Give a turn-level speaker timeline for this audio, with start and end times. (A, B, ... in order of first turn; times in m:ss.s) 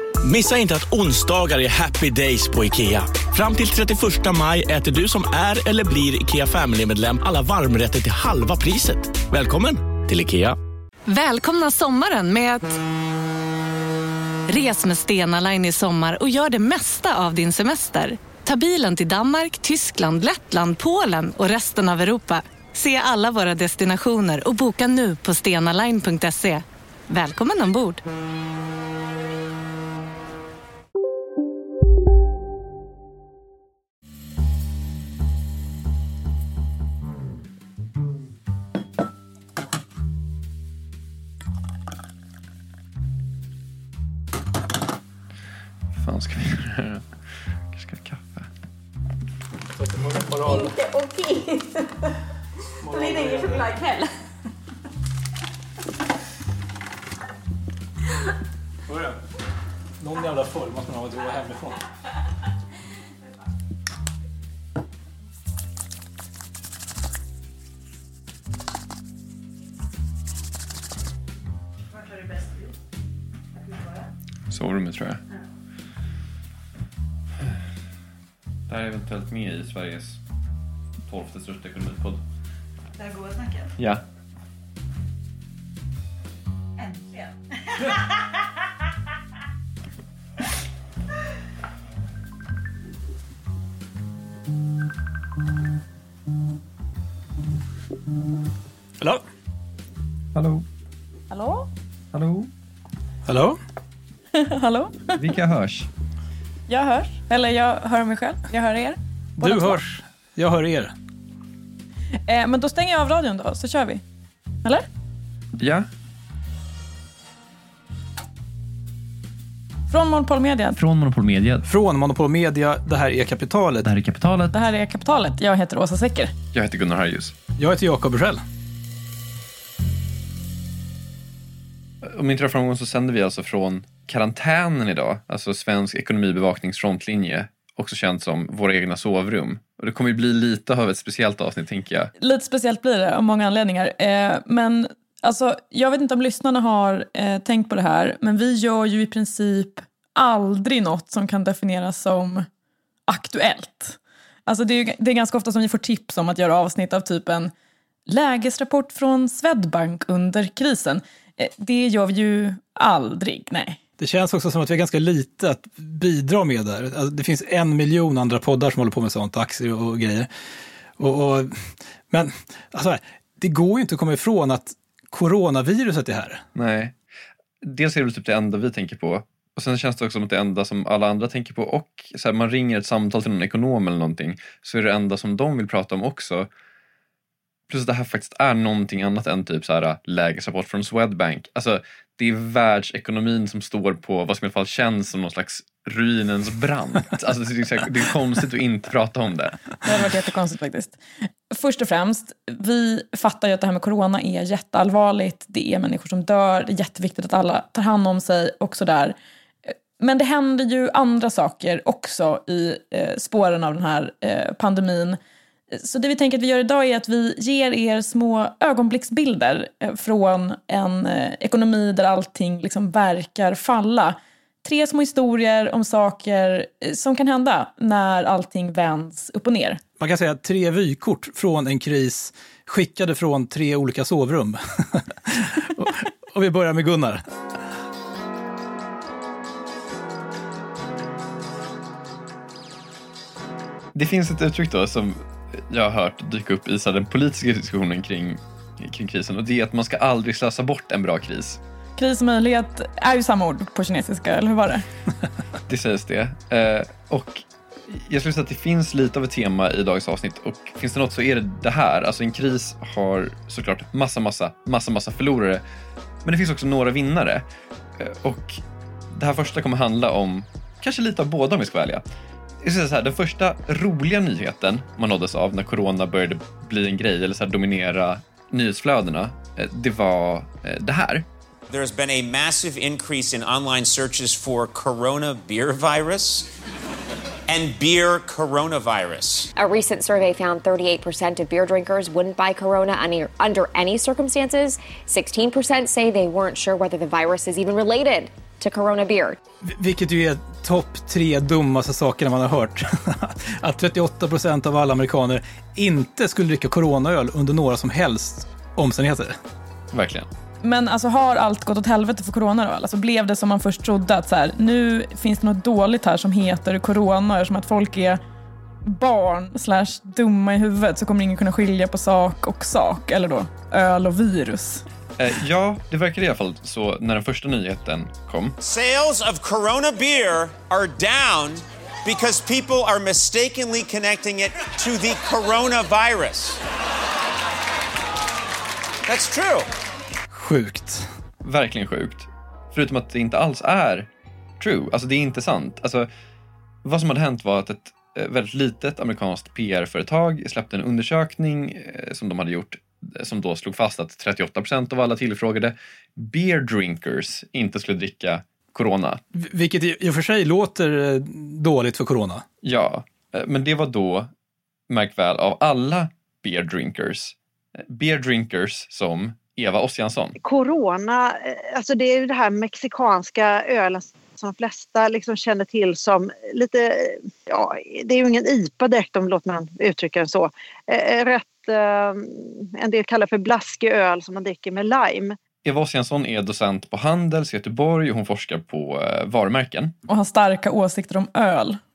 0:00.2-0:10.6 A
0:11.1-0:12.8 B
0:14.5-0:28.0 B
0:45.9-0:47.0 C
0:47.7-0:48.5 C
0:49.7-0:50.8 D
0:52.8-0:53.8 D
0:58.9-0:59.2 D
1:00.0-1:01.8 D
1:14.5-1:15.2 C
1:18.7-1:20.2 C
1:21.1-1:22.2 C
1:23.8-1:24.0 C
1:40.3-1:40.6 C
1:41.3-1:41.7 E
1:42.1-1:42.5 C
1:43.2-1:43.6 D
1:44.3-1:45.2 E
1:45.2-1:45.9 C
1:46.7-1:49.8 E
1:49.4-1:50.9 D
1:52.2-1:54.0 E
1:55.6-1:55.9 C
1:59.9-2:00.8 E
2:00.8-2:01.6 C
2:01.6-2:03.9 D
2:03.8-2:04.5 C
2:04.5-2:06.3 E
2:06.5-2:07.3 C
2:07.6-2:08.4 D
2:12.0-2:22.1 C
2:22.2-2:32.4 E
2:33.1-2:37.5 E
2:38.1-2:43.8 E
2:44.0-2:50.3 D
2:51.0-2:56.4 D
2:56.5-2:56.9 C
2:57.6-3:06.5 C
3:07.7-3:19.6 C
3:19.8-3:21.0 E
3:21.5-3:35.2 E
3:35.7-3:49.8 E
3:50.0-3:57.2 D
4:03.9-4:11.6 C
4:12.0-4:14.8 E
4:15.7-4:25.6 C
4:26.2-4:27.4 C
4:28.0-4:28.6 C
4:29.1-4:32.0 C
4:32.6-4:41.2 C
4:41.7-4:46.5 F
4:47.5-4:49.5 F
4:49.6-4:59.4 G
4:59.6-5:09.4 D
5:09.9-5:10.3 C
5:10.6-5:18.2 E
5:18.8-5:24.8 E
5:25.2-5:28.6 C
5:28.6-5:36.6 F
5:39.1-5:39.7 F
5:40.3-5:41.1 D
5:41.4-5:46.1 C
5:46.8-5:59.2 C
5:59.3-6:02.4 D
6:02.6-6:04.3 C
6:04.9-6:07.3 C
6:07.8-6:10.3 C
6:10.4-6:25.4 H
6:25.6-6:29.9 C
6:30.1-6:31.8 E